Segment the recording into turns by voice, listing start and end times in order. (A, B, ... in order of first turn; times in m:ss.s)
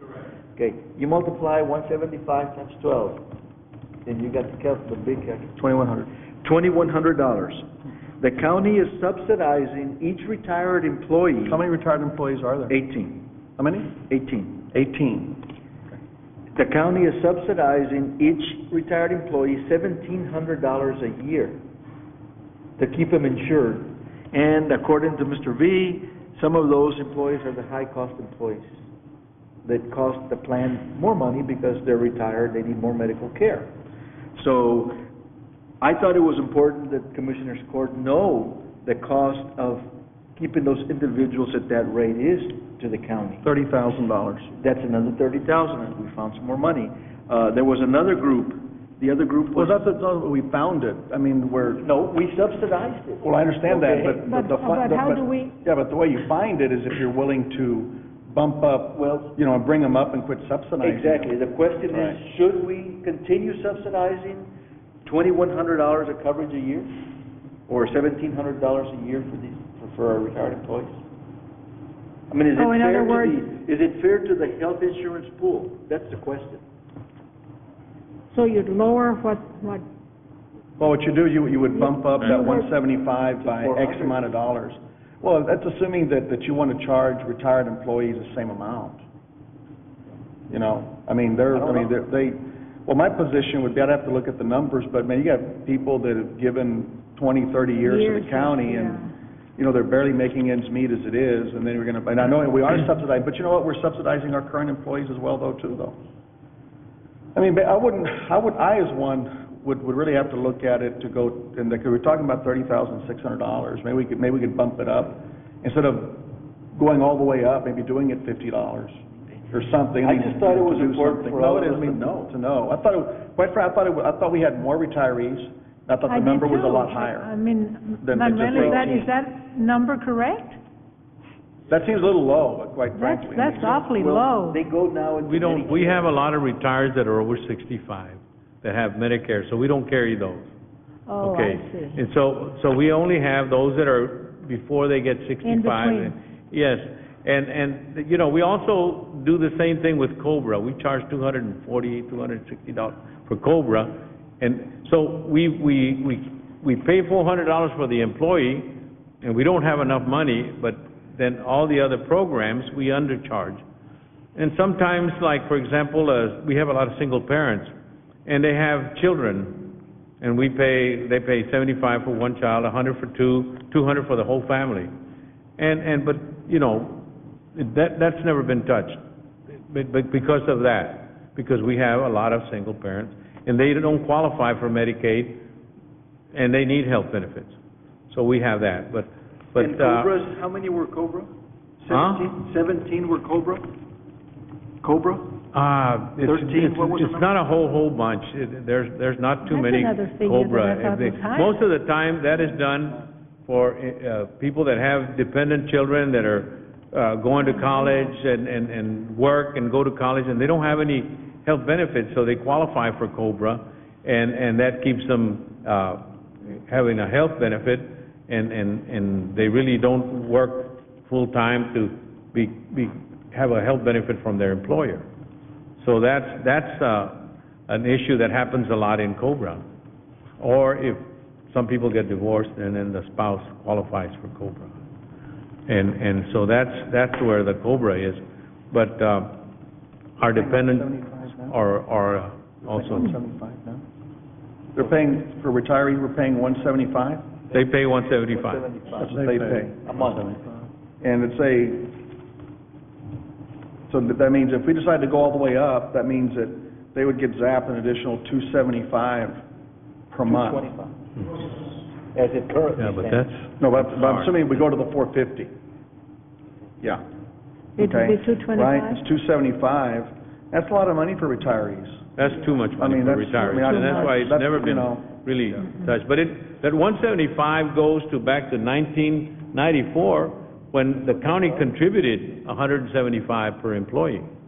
0:00.6-0:03.3 A
0:04.0-0:05.7 A
0:05.6-0:06.1 B
0:06.4-0:11.6 A
0:11.5-0:12.8 B
0:12.7-0:13.3 A
0:13.6-0:14.0 B
0:14.0-0:14.6 A
0:14.7-0:15.5 B
0:16.5-0:21.6 A
0:22.8-0:28.7 A
0:29.6-0:33.7 A
0:34.4-0:35.0 A
0:35.8-0:43.5 A
0:43.4-0:44.5 B
0:44.5-0:49.8 A
0:49.6-0:51.8 B
0:51.8-0:54.2 A
0:53.2-1:01.3 B
0:54.2-0:55.5 C
0:59.0-0:59.3 A
1:00.8-1:04.5 A
1:01.9-1:02.2 B
1:05.0-1:06.9 A
1:07.7-1:11.0 A
1:12.3-1:16.6 A
1:12.6-1:13.4 C
1:18.3-1:19.9 C
1:20.8-1:29.0 B
1:21.7-1:22.7 C
1:23.4-1:24.3 A
1:30.5-1:46.0 B
1:31.5-1:31.9 A
1:37.8-1:39.1 C
1:47.4-1:59.0 B
1:59.5-2:07.3 B
2:00.0-2:02.3 A
2:06.1-2:10.6 C
2:08.0-2:09.1 B
2:08.5-2:08.9 A
2:11.7-2:13.9 B
2:13.0-2:14.6 C
2:13.9-2:16.2 A
2:15.2-2:20.5 D
2:21.1-2:22.0 C
2:21.2-2:43.6 D
2:25.4-2:26.1 C
2:44.4-2:47.7 D
2:48.3-2:54.9 D
2:55.6-3:05.4 D
3:06.3-3:07.6 D
3:08.1-3:10.1 D
3:09.6-3:13.7 A
3:11.9-3:12.3 D
3:14.8-3:15.4 A
3:15.5-3:45.1 D
3:16.2-3:17.4 A
3:19.5-3:21.6 C
3:45.8-3:49.6 D
3:50.4-3:54.7 D
3:55.7-3:59.4 D
4:00.2-4:03.1 D
4:00.2-4:01.6 B
4:02.7-4:03.8 B
4:04.7-4:07.2 B
4:07.5-4:10.4 A
4:07.5-4:08.6 D
4:09.0-4:10.2 B
4:11.0-4:12.0 B
4:13.9-4:19.4 B
4:20.1-4:20.7 B
4:20.3-4:23.3 A
4:22.8-4:24.4 D
4:23.6-4:25.5 B
4:27.8-4:29.0 C
4:27.8-4:32.1 B
4:32.2-4:44.3 D
4:32.8-4:35.1 B
4:33.4-4:34.2 C
4:41.2-4:41.7 A